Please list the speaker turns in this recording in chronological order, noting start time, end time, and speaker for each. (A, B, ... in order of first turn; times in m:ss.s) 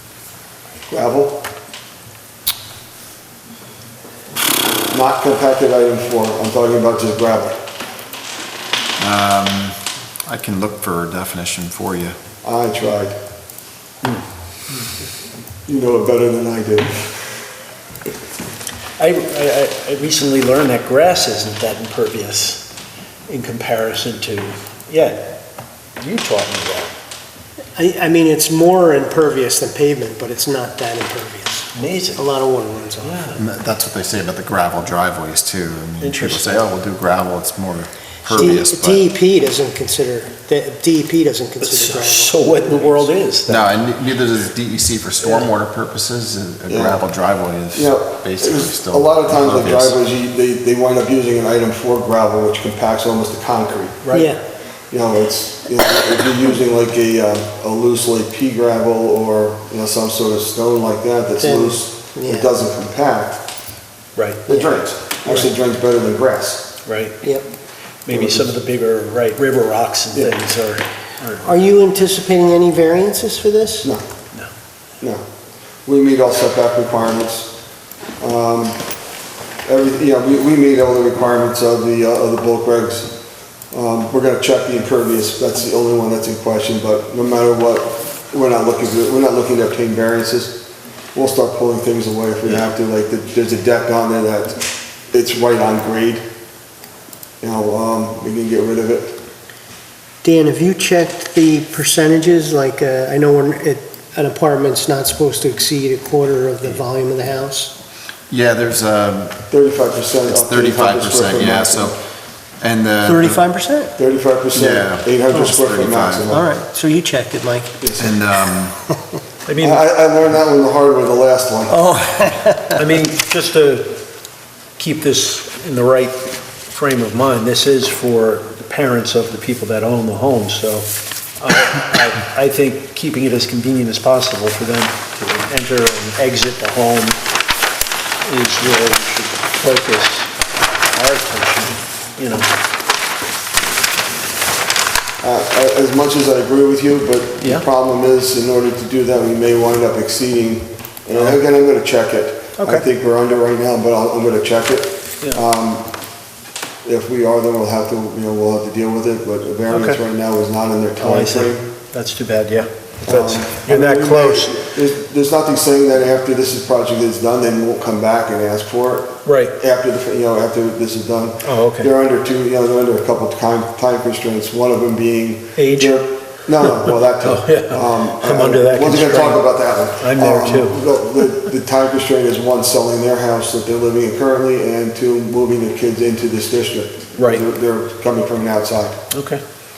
0:00.9-0:01.4 A
0:04.9-0:07.6 A
0:09.0-0:12.2 B
0:12.4-0:13.2 A
0:15.7-0:17.3 A
0:19.0-0:22.7 C
0:23.3-0:25.4 C
0:26.0-0:26.9 C
0:27.8-0:33.4 D
0:31.7-0:32.2 C
0:33.0-0:33.4 C
0:33.3-0:39.0 B
0:36.0-0:36.7 C
0:38.3-0:43.1 D
0:41.6-0:43.7 C
0:43.5-0:49.9 B
0:46.7-0:47.0 A
0:47.7-0:54.0 A
0:54.0-0:54.3 C
0:54.1-0:54.4 D
0:54.9-1:03.4 A
1:01.4-1:02.5 D
1:04.1-1:04.4 C
1:04.4-1:06.7 A
1:04.5-1:04.7 D
1:06.8-1:07.2 C
1:08.0-1:11.5 C
1:08.1-1:08.5 A
1:11.4-1:13.9 D
1:15.0-1:15.2 A
1:15.8-1:17.6 A
1:18.2-1:18.9 A
1:19.6-1:23.2 A
1:23.7-1:34.6 A
1:35.1-1:36.2 A
1:37.4-1:39.2 A
1:40.2-1:47.7 D
1:48.3-1:49.4 B
1:49.5-1:52.0 A
1:50.3-1:52.0 B
1:52.6-1:53.4 B
1:53.0-1:53.9 D
1:54.0-1:56.4 A
1:54.5-1:56.3 B
1:56.3-1:57.8 D
1:57.8-1:58.1 A
1:58.0-1:58.8 B
1:59.4-1:59.8 C
1:59.6-2:01.8 A
2:01.7-2:02.8 D
2:02.8-2:04.0 C
2:04.8-2:17.2 C
2:18.2-2:22.5 C
2:25.2-2:35.9 A
2:32.6-2:32.8 C
2:36.8-2:41.6 A
2:39.7-2:40.0 C
2:41.0-2:44.6 C
2:43.0-3:09.0 A
2:49.2-2:49.5 C
2:51.4-2:51.9 C
2:55.6-2:56.0 C
2:56.8-2:59.4 C
3:00.0-3:00.8 C
3:07.2-3:07.4 C
3:09.1-3:09.4 C